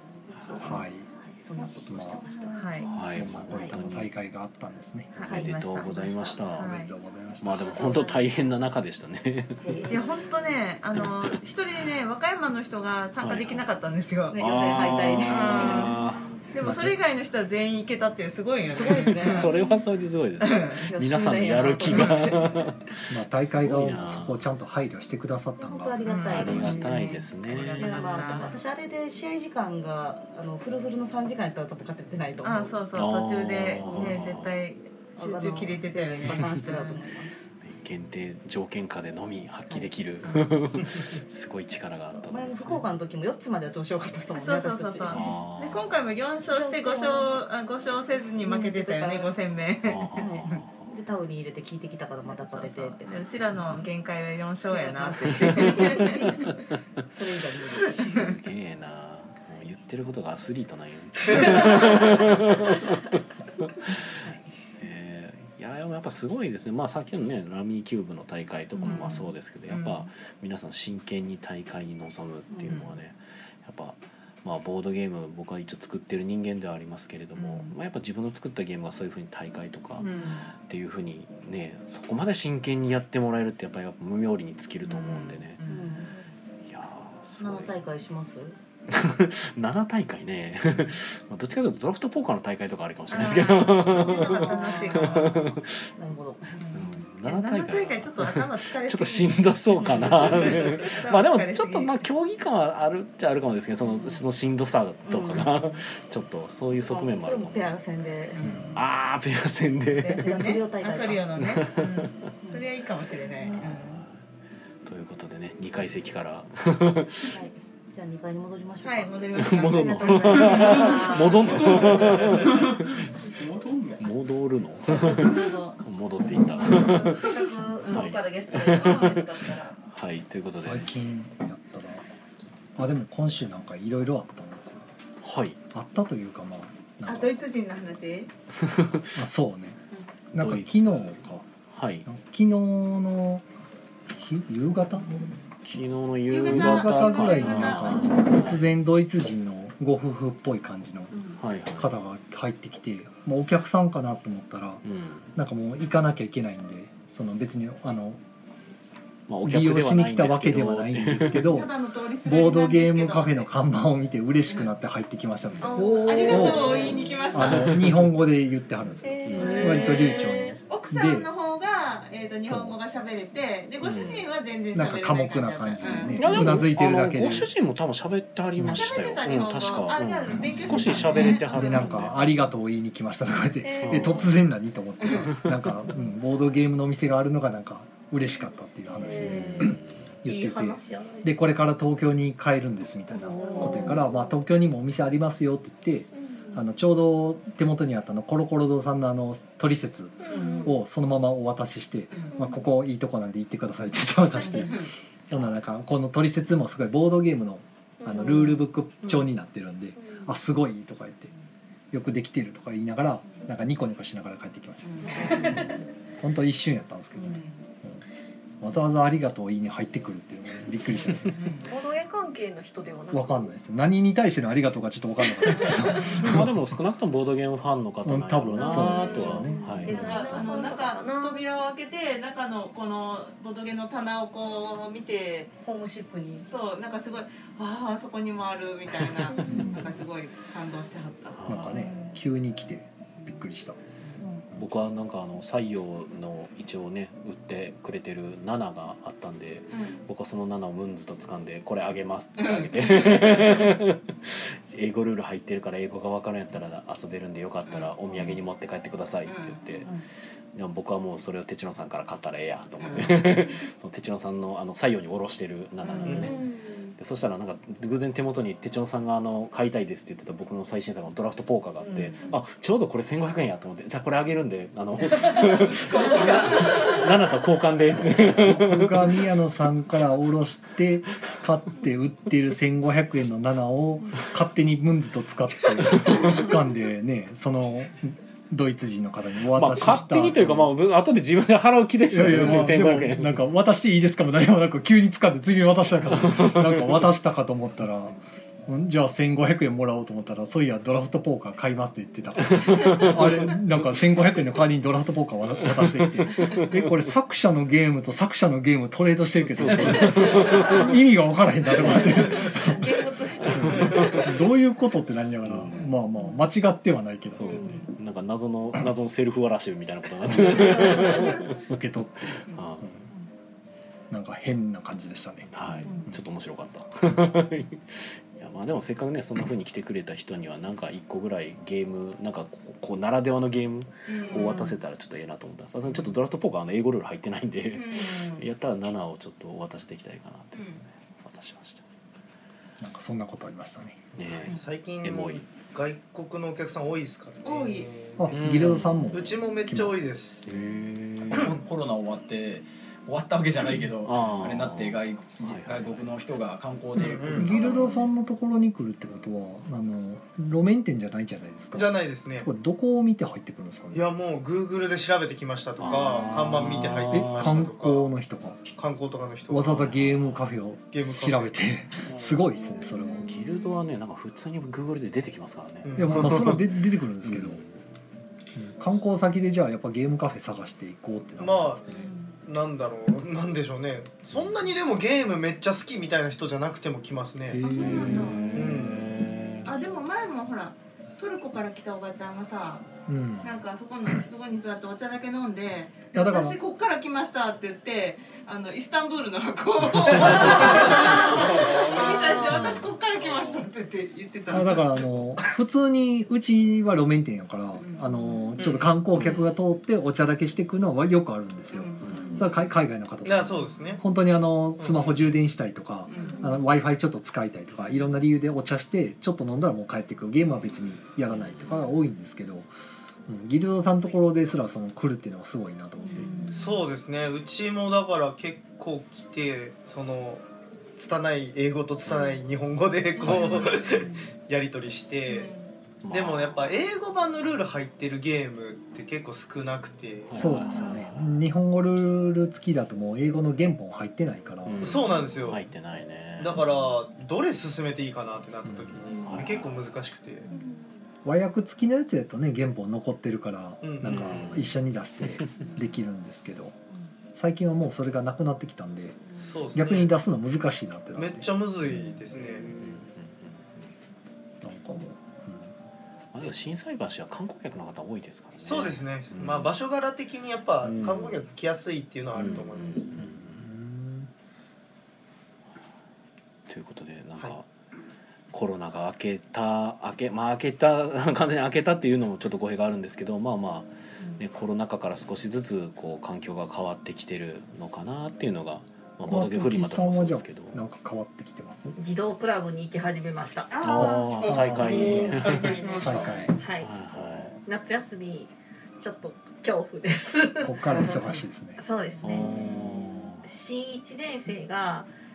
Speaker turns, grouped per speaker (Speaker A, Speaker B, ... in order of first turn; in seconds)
Speaker A: 0.3-3.7, 5.3-5.8, 7.8-8.2, 9.6-10.2, 14.3-15.9, 18.7-19.5, 20.8-22.6, 25.6-27.1, 27.8-32.8, 33.8-34.2, 35.2-37.5, 42.2-45.3, 46.5-47.4, 48.4-49.3, 50.1-53.3, 54.6-56.5, 57.1-58.3, 61.3-62.4, 64.2-64.5, 85.7-86.3, 87.4-88.5, 94.1-95.2, 96.0-96.6, 99.8-100.6, 103.9-104.2, 105.0-105.7, 106.8-108.7, 110.2-111.3, 117.3-122.0, 125.1-125.6, 126.7-129.8, 229.9-230.6, 235.6-236.5
Speaker B: 0.4-0.8, 2.9-4.1, 5.3-6.7, 7.4-9.7, 11.0-11.3, 13.2-13.7, 14.3-16.3, 19.2-24.4, 26.2-28.3, 32.9-34.6, 37.6-42.8, 45.1-46.0, 49.8-50.9, 58.0-63.2, 64.8-85.6, 86.7-87.7, 88.9-95.8, 96.7-107.8, 108.7-110.5, 111.4-112.1, 113.5-114.2, 114.8-117.4, 119.3-123.1, 124.0-129.3, 129.9-130.9, 135.2-135.6, 138.6-139.2, 140.4-141.2, 141.7-142.1, 145.7-148.6, 151.4-151.9, 154.8-155.3, 159.3-161.6, 167.3-168.1, 169.3-169.7, 173.8-174.2, 176.1-182.5, 183.8-184.3, 189.1-190.0, 226.1-230.1, 241.3-241.8, 244.6-259.9, 260.5-266.4, 266.9-279.1, 286.0-286.4, 289.5-293.4, 296.1-296.8, 302.5-303.3, 309.4-310.9, 313.8-314.2, 315.4-315.9, 317.3-321.4, 322.5-322.9, 325.5-341.8, 344.1-345.4, 348.3-349.1, 350.4-351.6, 354.0-356.1, 365.8-367.7, 369.9-370.4, 373.2-376.6, 377.2-377.8, 387.9-389.7, 402.5-402.8, 412.0-412.4, 421.3-421.6, 436.0-436.7, 440.3-441.2, 444.6-446.6, 449.2-449.9, 454.0-454.7, 455.2-455.5, 462.7-463.9, 466.3-469.7, 470.8-471.4, 472.3-473.4, 476.7-477.6, 478.5-490.8, 493.8-497.5, 502.2-503.4
Speaker C: 0.6-1.1, 1.8-2.2, 3.1-5.3, 6.6-7.9, 16.6-17.0, 23.1-26.9, 130.5-132.0, 132.8-134.9, 135.7-137.4, 139.1-139.8, 140.3-141.4, 142.1-143.4, 144.1-145.1, 146.4-151.2, 151.7-154.8, 155.3-158.2, 159.4-171.3, 172.4-172.8, 174.7-177.5, 180.3-211.3, 211.9-218.0, 218.6-221.3, 223.1-226.6, 228.0-230.5, 239.4-239.9, 241.4-243.8, 277.9-290.8, 292.1-312.8, 313.5-317.6, 320.3-323.0, 324.1-325.6, 342.8-344.0, 348.2-350.0, 357.3-364.1, 367.1-368.6, 369.5-373.4, 375.9-377.6, 378.5-381.8, 387.5-388.4, 393.1-393.6, 396.1-396.6, 400.0-401.2, 402.6-402.8, 404.5-422.7, 423.3-426.4, 433.2-433.8, 440.3-445.0, 448.7-449.0, 451.2-456.8, 457.3-459.2, 459.7-461.5, 464.6-465.7, 473.1-474.3, 489.2-492.0, 493.9-496.6, 500.6-501.8
Speaker D: 2.5-2.9, 5.1-6.9, 9.9-14.6, 15.2-15.9, 16.5-19.6, 20.4-20.8, 21.9-22.2, 26.0-28.6, 32.4-37.0, 44.3-50.6, 52.3-56.5, 57.7-58.4, 68.7-70.1, 72.7-72.9, 77.3-77.7, 80.0-80.4, 84.8-86.0, 93.1-95.5, 96.6-102.0, 108.3-108.8, 110.0-114.0, 118.8-121.7, 124.9-125.8, 126.6-127.2, 127.8-129.2, 137.1-138.3, 146.3-148.5, 161.4-163.5, 165.7-168.0, 169.4-170.2, 170.7-176.6, 178.6-181.8, 204.5-204.9, 214.8-215.6, 217.2-217.6, 221.3-221.7, 229.8-235.5, 236.4-241.7, 249.7-250.0, 252.4-253.7, 257.6-258.4, 259.2-259.8, 262.8-263.3, 265.8-266.4, 275.8-277.0, 334.1-334.7, 337.7-338.4, 340.5-340.8, 347.4-347.9, 381.9-382.3, 387.6-388.8, 389.6-392.9, 393.4-405.0, 407.8-409.4, 411.7-412.5, 416.1-416.5, 426.0-426.8, 433.1-433.8, 435.3-435.7, 444.9-445.1, 493.8-494.4, 495.5-496.2, 502.2-502.5
Speaker E: 120.5-124.0, 494.0-496.5
Speaker F: 165.6-166.9, 169.3-170.6, 190.2-191.7, 193.1-194.0, 492.0-494.1, 496.6-496.9, 497.6-501.2, 501.8-505.1
Speaker G: 169.0-169.8, 200.3-200.6, 221.6-223.5, 228.6-231.4, 266.2-266.9, 312.7-314.1
Speaker H: 275.9-276.5, 351.3-357.7
Speaker I: 344.5-350.5, 356.9-358.0, 361.7-362.5, 363.9-368.1, 368.7-370.1, 370.9-371.5, 375.8-376.5, 381.4-388.0, 388.5-389.2, 413.2-414.0, 414.8-415.2, 426.5-430.4, 430.9-435.5, 436.1-440.6, 444.8-445.6, 446.4-450.5, 453.8-454.6, 459.4-460.1, 461.1-462.9, 468.6-473.1